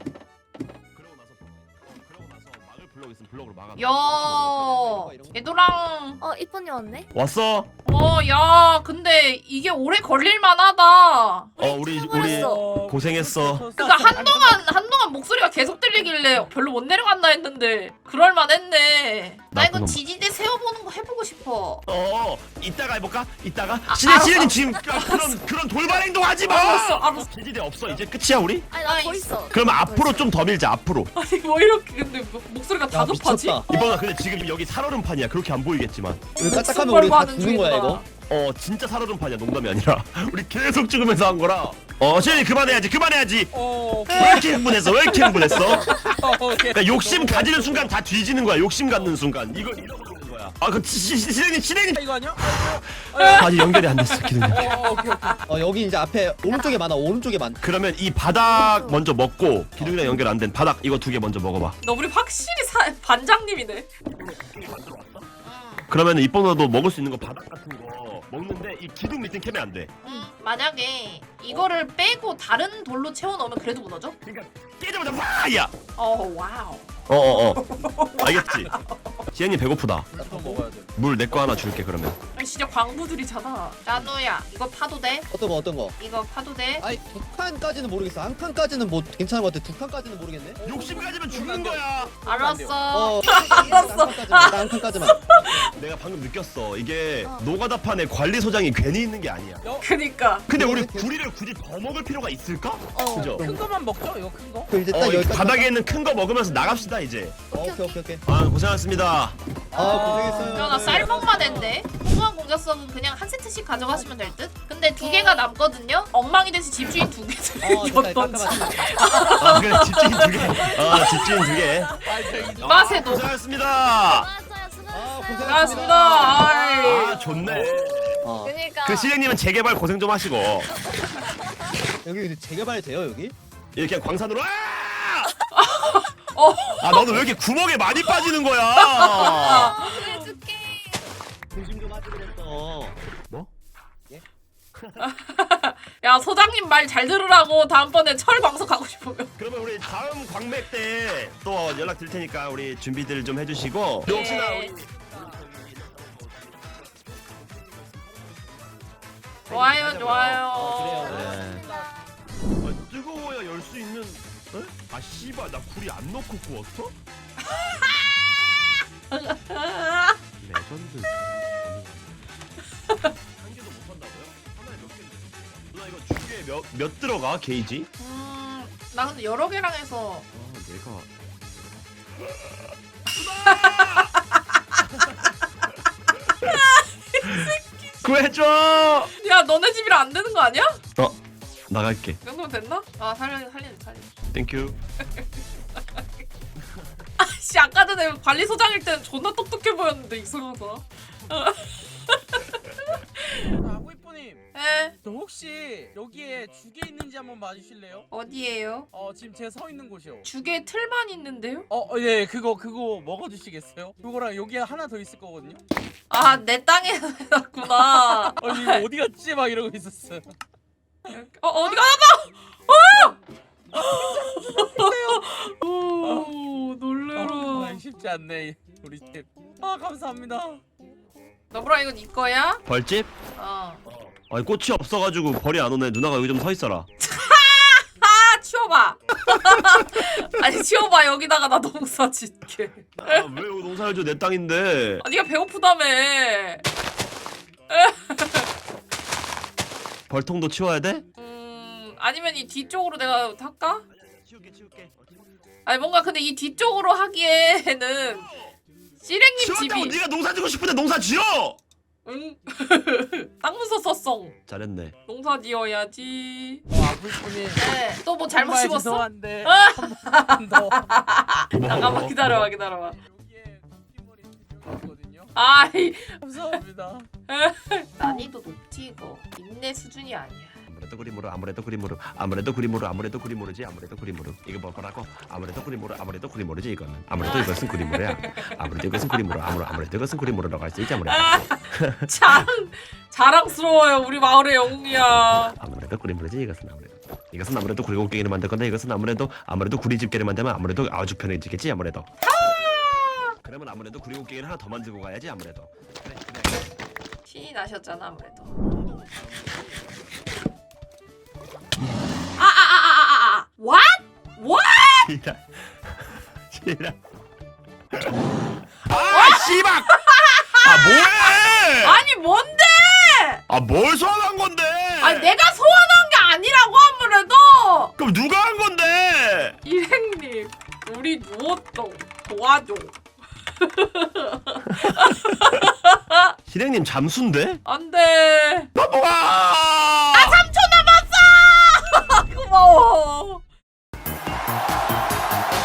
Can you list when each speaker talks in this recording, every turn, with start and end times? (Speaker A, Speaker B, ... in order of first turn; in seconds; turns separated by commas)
Speaker A: 0.9-4.6, Speaker B: 3.8-6.2, Speaker C: 4.4-5.4, Speaker D: 6.2-7.1, Speaker A: 7.1-7.7, Speaker B: 7.9-11.5, Speaker D: 11.6-12.6, Speaker A: 11.6-13.7, Speaker E: 12.1-14.7, Speaker B: 13.8-21.9, Speaker A: 19.5-20.0, Speaker A: 21.9-28.7, Speaker B: 23.9-25.4, Speaker B: 26.4-27.3, Speaker D: 28.7-30.3, Speaker B: 28.8-29.3, Speaker A: 29.5-31.1, Speaker B: 31.1-33.6, Speaker C: 32.9-33.7, Speaker A: 33.7-36.3, Speaker B: 36.4-38.1, Speaker C: 36.4-38.0, Speaker A: 38.3-43.5, Speaker E: 42.2-42.9, Speaker E: 43.5-48.0, Speaker A: 44.1-45.9, Speaker A: 46.6-54.7, Speaker E: 48.9-49.2, Speaker E: 51.9-55.4, Speaker B: 53.2-53.5, Speaker C: 55.5-57.6, Speaker D: 56.5-56.8, Speaker A: 57.6-61.8, Speaker D: 58.3-59.0, Speaker C: 59.8-60.1, Speaker B: 61.8-63.9, Speaker A: 64.1-65.3, Speaker B: 65.4-65.9, Speaker A: 65.9-70.0, Speaker B: 70.0-74.2, Speaker A: 74.2-75.7, Speaker B: 76.0-77.0, Speaker A: 77.1-78.7, Speaker B: 77.6-79.1, Speaker A: 79.3-80.1, Speaker E: 80.1-81.8, Speaker C: 80.2-80.7, Speaker A: 81.0-82.2, Speaker B: 82.4-85.3, Speaker C: 85.3-86.0, Speaker B: 86.0-86.9, Speaker C: 86.8-90.6, Speaker E: 90.6-92.8, Speaker A: 90.7-92.1, Speaker B: 92.2-95.7, Speaker C: 92.9-95.7, Speaker D: 93.5-93.8, Speaker A: 95.7-99.7, Speaker E: 99.6-99.9, Speaker B: 99.8-100.5, Speaker A: 100.5-103.5, Speaker C: 100.5-101.1, Speaker D: 102.9-103.3, Speaker C: 103.2-103.7, Speaker E: 103.4-104.7, Speaker C: 104.7-105.8, Speaker A: 104.9-107.6, Speaker C: 107.5-108.2, Speaker A: 108.2-109.4, Speaker C: 109.7-111.6, Speaker E: 109.7-111.8, Speaker B: 110.5-121.3, Speaker D: 115.0-115.5, Speaker C: 117.6-119.5, Speaker D: 119.0-119.3, Speaker A: 119.4-124.3, Speaker D: 120.5-122.0, Speaker E: 121.8-123.2, Speaker B: 122.6-123.3, Speaker D: 124.0-127.5, Speaker C: 124.9-126.5, Speaker B: 125.5-127.2, Speaker A: 126.8-130.7, Speaker C: 127.4-128.6, Speaker D: 128.4-129.1, Speaker D: 130.7-131.5, Speaker C: 132.0-133.3, Speaker A: 133.8-135.3, Speaker B: 135.6-137.2, Speaker A: 136.8-139.8, Speaker B: 138.1-140.3, Speaker D: 139.3-141.1, Speaker C: 141.6-143.0, Speaker A: 144.8-145.1, Speaker B: 145.0-149.3, Speaker A: 149.4-161.7, Speaker B: 154.1-154.8, Speaker E: 154.5-155.4, Speaker B: 159.5-161.4, Speaker C: 160.5-161.4, Speaker E: 160.6-161.9, Speaker A: 162.6-167.0, Speaker B: 167.5-168.2, Speaker B: 169.1-170.2, Speaker A: 170.4-172.3, Speaker A: 173.3-177.9, Speaker B: 178.0-180.3, Speaker A: 180.3-184.1, Speaker B: 183.4-184.4, Speaker A: 184.8-185.3, Speaker B: 186.5-188.1, Speaker A: 187.2-189.1, Speaker B: 189.2-190.8, Speaker A: 191.7-192.2, Speaker B: 192.2-194.1, Speaker A: 194.3-194.8, Speaker A: 196.7-197.0, Speaker B: 197.2-203.6, Speaker E: 203.5-204.4, Speaker B: 204.5-204.9, Speaker E: 205.0-208.1, Speaker B: 208.1-208.9, Speaker E: 208.9-210.3, Speaker B: 210.2-211.7, Speaker E: 211.7-215.6, Speaker B: 216.1-218.8, Speaker E: 218.4-220.3, Speaker B: 221.1-223.2, Speaker E: 223.7-225.2, Speaker B: 223.8-227.8, Speaker E: 226.0-226.3, Speaker E: 227.2-230.6, Speaker B: 231.5-232.6, Speaker A: 232.7-233.1, Speaker B: 233.3-233.8, Speaker A: 233.9-236.9, Speaker B: 237.0-243.3, Speaker A: 243.0-245.0, Speaker B: 245.0-246.7, Speaker B: 247.7-248.5, Speaker A: 250.1-251.1, Speaker B: 251.2-253.8, Speaker A: 253.9-255.4, Speaker B: 255.7-258.3, Speaker A: 257.9-258.6, Speaker B: 259.0-260.0, Speaker A: 259.4-261.6, Speaker B: 262.1-264.4, Speaker A: 264.5-265.0, Speaker B: 265.1-266.6, Speaker E: 266.7-267.7, Speaker B: 267.6-273.0, Speaker E: 268.3-270.9, Speaker A: 271.5-272.4, Speaker E: 273.0-275.4, Speaker B: 275.4-276.2, Speaker E: 276.2-277.1, Speaker B: 277.3-280.6, Speaker A: 280.7-292.4, Speaker B: 287.2-288.5, Speaker B: 291.1-295.6, Speaker A: 295.6-302.1, Speaker B: 302.2-303.4, Speaker A: 303.4-306.4, Speaker B: 307.3-308.5, Speaker B: 312.4-315.1, Speaker A: 315.0-317.0, Speaker A: 317.9-320.0, Speaker B: 318.9-323.4, Speaker A: 320.6-322.0, Speaker A: 323.5-325.4, Speaker B: 325.0-327.9, Speaker A: 328.0-329.6, Speaker B: 329.6-333.0, Speaker B: 333.6-336.3, Speaker A: 334.7-335.4, Speaker A: 336.5-337.6, Speaker B: 337.7-338.7, Speaker A: 338.8-340.4, Speaker B: 340.1-343.4